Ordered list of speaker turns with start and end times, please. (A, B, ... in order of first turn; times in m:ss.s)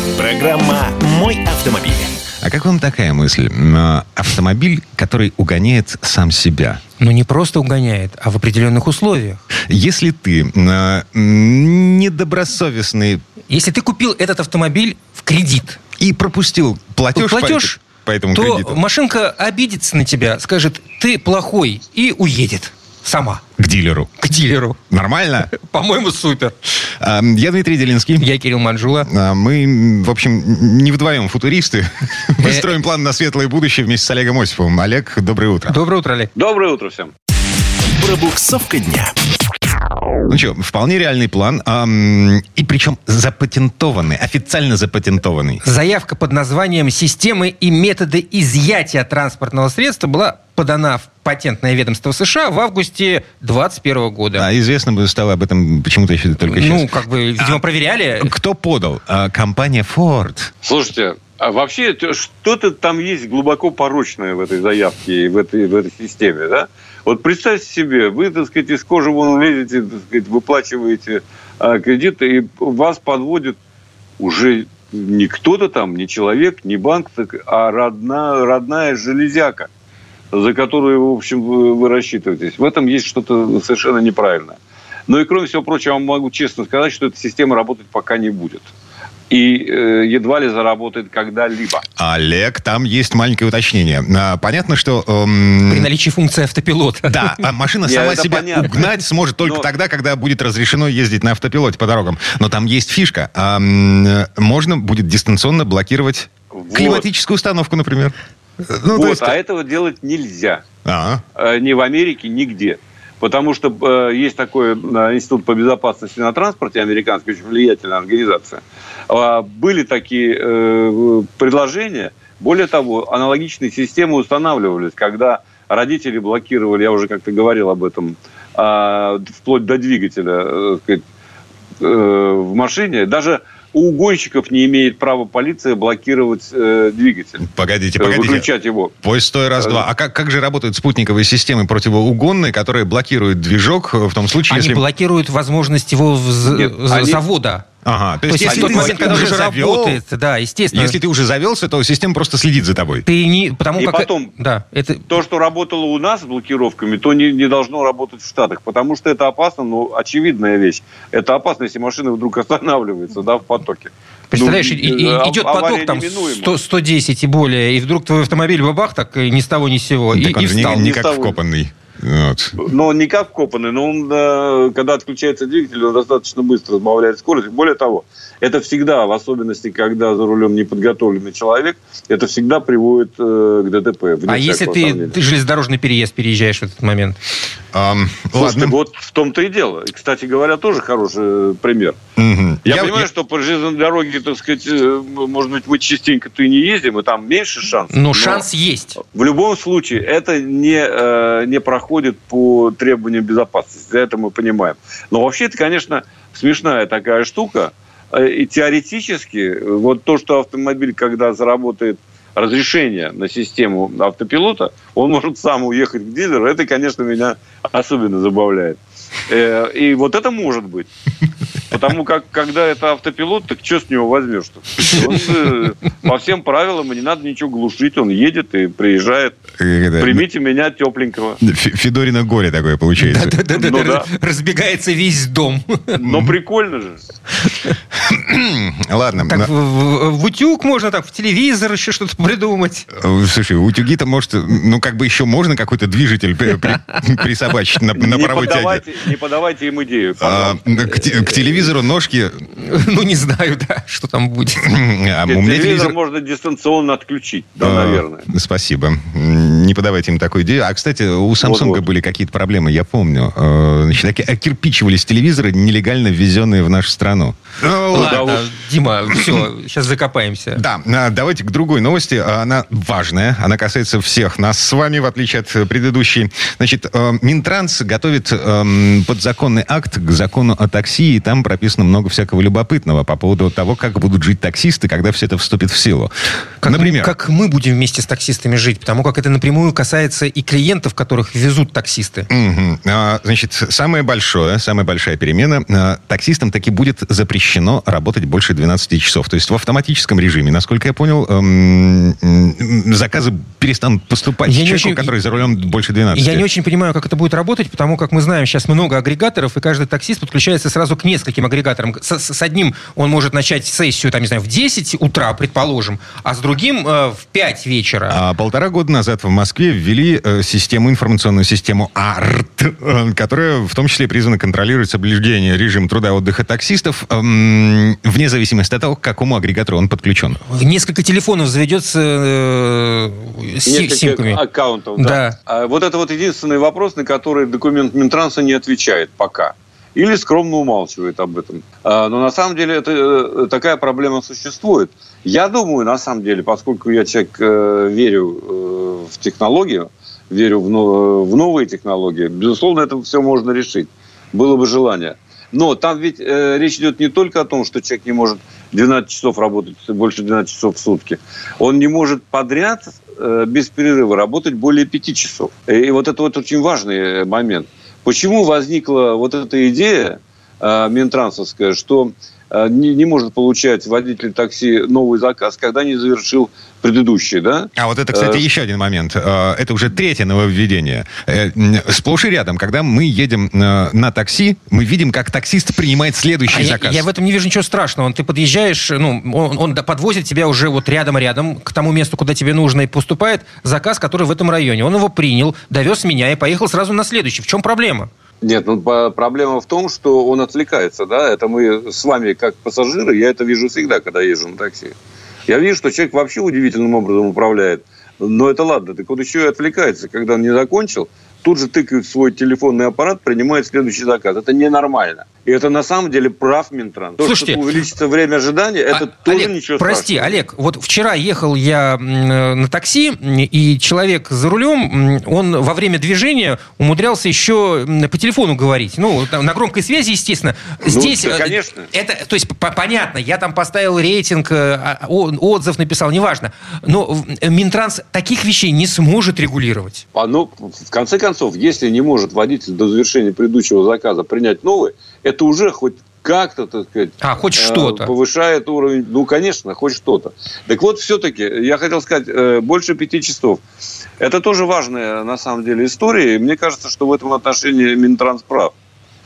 0:00.2-0:02.2 A
0:02.4-0:06.8 B
0:07.0-0:09.4 C
0:09.7-0:13.2 B
0:13.5-0:15.8 C
0:16.0-0:18.8 B
0:17.1-0:17.8 C
0:18.3-0:23.4 C
0:23.6-0:24.2 B
0:24.2-0:24.8 C
0:24.9-0:25.5 B
0:25.5-0:26.5 C
0:27.0-0:28.2 B
0:28.2-0:29.1 C
0:29.1-0:35.8 B
0:32.4-0:32.7 C
0:35.7-0:36.3 C
0:36.3-0:37.1 D
0:37.9-0:39.1 A
0:40.3-0:45.6 B
0:45.6-0:54.5 C
0:54.4-0:57.6 B
0:56.4-0:58.3 C
0:58.2-1:00.5 B
1:00.6-1:13.6 D
1:14.2-1:19.7 D
1:20.3-1:28.7 D
1:29.3-1:31.8 D
1:32.0-1:35.9 B
1:35.7-1:37.4 C
1:37.0-1:49.4 B
1:37.8-1:39.6 D
1:46.5-1:47.0 D
1:48.9-1:50.6 D
1:50.8-1:51.2 B
1:51.4-2:11.0 D
2:11.8-2:17.4 D
2:17.5-2:18.5 B
2:18.0-2:18.9 D
2:19.0-2:24.8 B
2:24.5-2:27.6 C
2:26.4-2:27.2 D
2:27.8-2:30.0 B
2:28.3-2:31.0 C
2:28.4-2:29.3 D
2:30.7-2:33.0 B
2:33.0-2:35.2 C
2:33.8-2:34.3 D
2:35.1-2:46.5 D
2:44.3-2:50.8 C
2:50.1-2:52.6 B
2:50.6-2:51.4 D
2:52.6-3:05.2 D
3:04.3-3:07.2 C
3:07.7-3:08.7 B
3:08.4-3:12.0 D
3:12.2-3:13.1 B
3:12.6-3:18.4 D
3:17.9-3:19.0 C
3:19.1-3:40.9 D
3:41.7-3:49.4 D
3:49.6-3:50.2 B
3:50.0-3:51.4 D
3:51.4-3:53.3 B
3:53.0-3:56.0 C
3:53.5-3:54.1 D
3:56.0-3:57.0 D
3:56.0-3:56.3 B
3:57.9-3:59.5 B
3:59.2-4:02.9 C
4:02.9-4:08.8 B
4:08.0-4:11.6 D
4:10.2-4:12.4 B
4:12.6-4:14.6 C
4:14.6-4:15.9 B
4:15.3-4:18.2 D
4:17.6-4:28.4 B
4:21.4-4:21.8 D
4:27.9-4:30.6 C
4:28.0-4:28.4 D
4:30.5-4:47.1 B
4:46.6-4:52.3 C
4:52.3-5:06.4 B
5:04.4-5:05.1 C
5:06.1-5:18.2 C
5:18.1-5:30.4 B
5:30.5-5:34.4 C
5:33.6-6:18.4 D
5:35.0-5:35.4 C
6:17.8-6:27.0 B
6:26.5-6:38.1 C
6:38.4-6:44.9 D
6:45.5-7:00.4 D
6:57.2-6:57.6 C
6:58.9-7:20.0 C
7:10.8-7:11.9 D
7:20.1-7:33.6 D
7:27.2-7:28.1 C
7:34.2-7:38.7 D